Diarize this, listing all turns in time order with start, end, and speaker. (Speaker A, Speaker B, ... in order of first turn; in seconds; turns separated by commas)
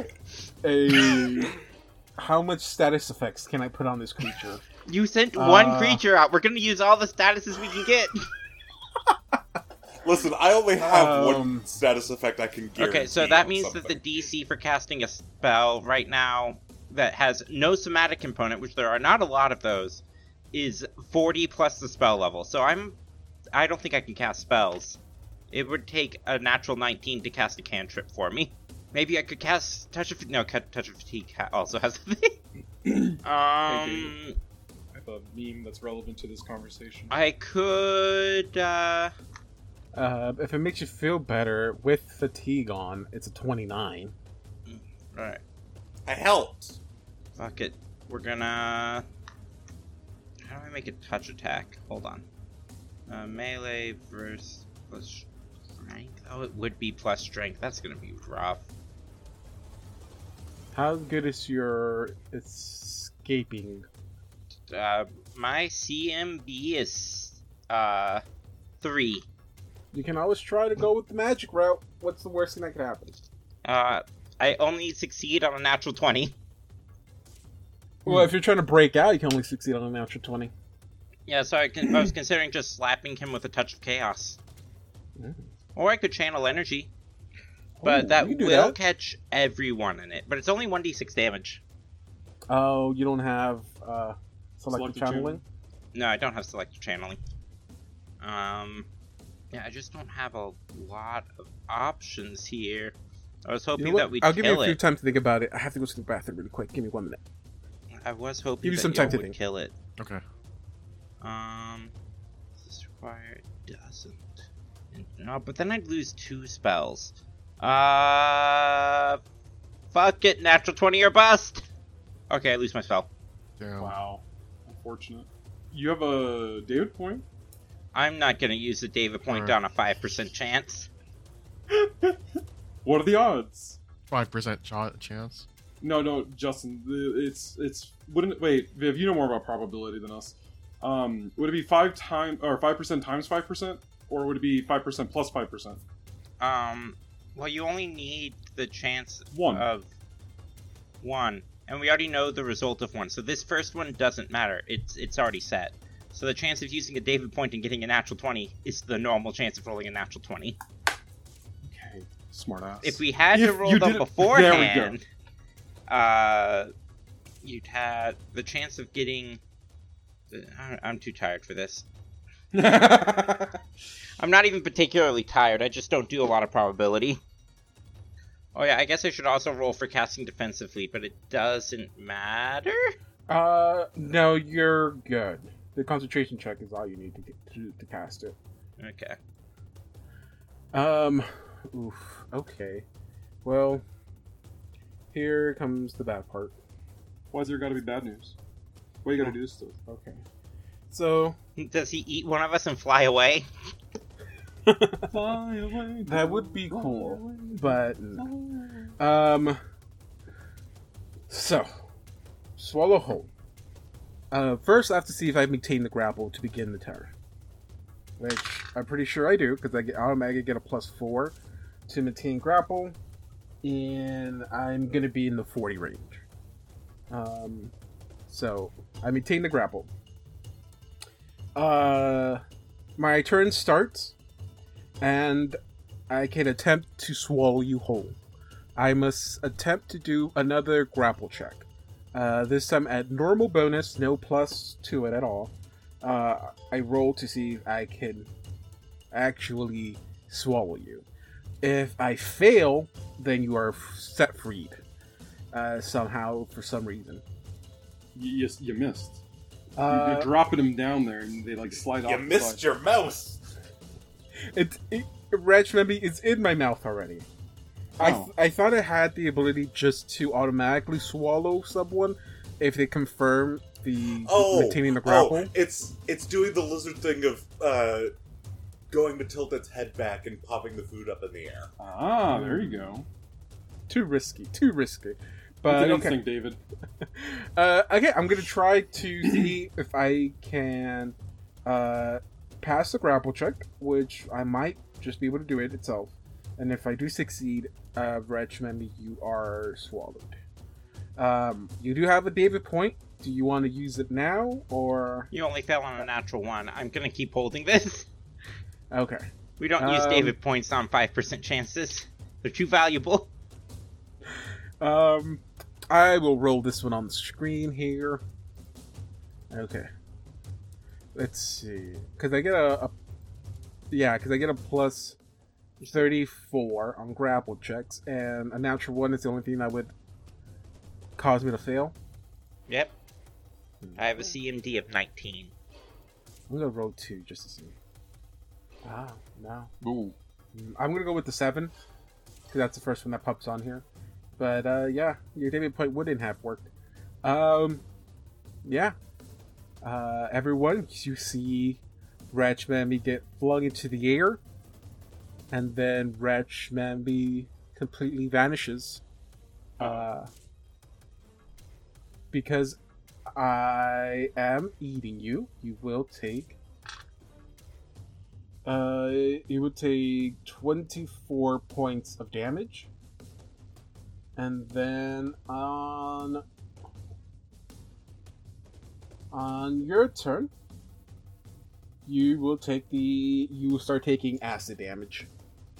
Speaker A: 0.6-1.5, Speaker A: 2.2-4.6, Speaker B: 4.9-8.2, Speaker A: 5.3-6.0, Speaker C: 10.0-14.0, Speaker A: 10.8-11.7, Speaker B: 12.8-23.0, Speaker B: 23.5-25.0, Speaker B: 25.5-32.4, Speaker D: 32.9-34.1, Speaker B: 33.2-34.4, Speaker D: 34.9-37.1, Speaker B: 37.1-39.1, Speaker A: 39.9-44.1, Speaker B: 44.7-45.4, Speaker C: 46.1-46.8, Speaker B: 47.4-49.0, Speaker B: 50.4-52.2, Speaker B: 53.1-58.6, Speaker A: 60.7-63.9, Speaker B: 64.7-68.2, Speaker B: 68.8-69.2, Speaker A: 69.9-73.1, Speaker B: 73.6-76.3, Speaker A: 78.0-80.5, Speaker B: 81.3-84.4, Speaker A: 85.2-85.4, Speaker B: 85.8-86.9, Speaker A: 87.8-88.8, Speaker B: 87.8-91.6, Speaker A: 92.5-95.4, Speaker D: 94.7-95.4, Speaker B: 95.9-97.2, Speaker B: 98.2-98.9, Speaker B: 99.5-104.8, Speaker A: 103.8-107.2, Speaker B: 108.0-109.7, Speaker A: 108.6-109.3, Speaker E: 110.0-110.2, Speaker B: 111.2-111.9, Speaker B: 112.6-114.2, Speaker B: 114.9-119.2, Speaker B: 119.9-121.6, Speaker B: 122.3-123.1, Speaker E: 123.6-123.9, Speaker D: 123.8-127.2, Speaker B: 127.9-130.9, Speaker E: 129.3-129.6, Speaker D: 131.7-132.2, Speaker D: 132.8-133.8, Speaker E: 134.1-135.4, Speaker D: 135.8-145.8, Speaker B: 146.4-149.9, Speaker D: 149.3-149.7, Speaker B: 151.0-160.6, Speaker D: 161.6-164.9, Speaker B: 162.8-165.0, Speaker B: 165.9-166.7, Speaker B: 167.4-169.4, Speaker B: 170.3-171.8, Speaker D: 172.5-173.6, Speaker B: 174.2-177.2, Speaker B: 178.5-182.9, Speaker A: 183.3-188.3, Speaker B: 188.8-189.2, Speaker A: 190.7-192.8, Speaker A: 193.4-193.8, Speaker A: 195.1-196.6, Speaker D: 197.3-198.3, Speaker D: 199.0-199.7, Speaker A: 199.9-200.2, Speaker A: 200.9-201.3, Speaker B: 201.6-203.4, Speaker A: 204.7-205.2, Speaker D: 205.0-208.9, Speaker A: 206.1-208.3, Speaker A: 209.0-209.6, Speaker A: 211.3-211.7, Speaker A: 212.6-213.3, Speaker A: 214.3-217.1, Speaker A: 218.2-221.4, Speaker A: 221.9-222.9, Speaker A: 223.6-226.2, Speaker A: 227.1-227.7, Speaker A: 228.3-229.9, Speaker A: 231.5-232.4, Speaker A: 233.0-234.1, Speaker A: 235.0-235.6, Speaker A: 236.1-238.2, Speaker A: 238.8-248.3, Speaker A: 249.1-251.1, Speaker A: 251.6-254.8, Speaker A: 255.5-257.2, Speaker D: 258.1-259.2, Speaker A: 259.8-260.3, Speaker D: 259.9-262.6, Speaker C: 262.0-263.4, Speaker A: 264.5-267.3, Speaker D: 268.0-268.3, Speaker A: 268.0-275.5, Speaker C: 274.2-278.1, Speaker C: 278.9-281.7, Speaker D: 281.8-283.1, Speaker A: 282.3-283.0, Speaker A: 283.9-286.2, Speaker D: 285.6-286.6, Speaker A: 287.0-300.3, Speaker A: 301.2-305.3, Speaker B: 305.3-308.1, Speaker A: 308.9-309.2, Speaker B: 309.6-313.3, Speaker A: 309.8-310.3, Speaker A: 314.8-318.2, Speaker A: 319.5-319.9, Speaker A: 321.1-322.9, Speaker A: 323.9-325.2, Speaker A: 325.9-329.9, Speaker A: 331.2-331.9, Speaker B: 332.7-332.9, Speaker A: 333.8-334.2, Speaker B: 334.0-335.5, Speaker A: 336.5-337.7, Speaker A: 338.8-339.7, Speaker D: 339.8-340.1, Speaker A: 340.5-341.7, Speaker A: 342.5-343.8, Speaker A: 344.4-346.7, Speaker A: 347.2-347.8, Speaker A: 348.6-348.9, Speaker A: 349.8-354.4, Speaker A: 355.5-359.0, Speaker A: 359.8-360.3, Speaker A: 362.3-362.8, Speaker A: 363.3-366.6, Speaker A: 368.6-372.9, Speaker A: 374.4-376.4, Speaker A: 379.3-380.5, Speaker A: 382.0-385.3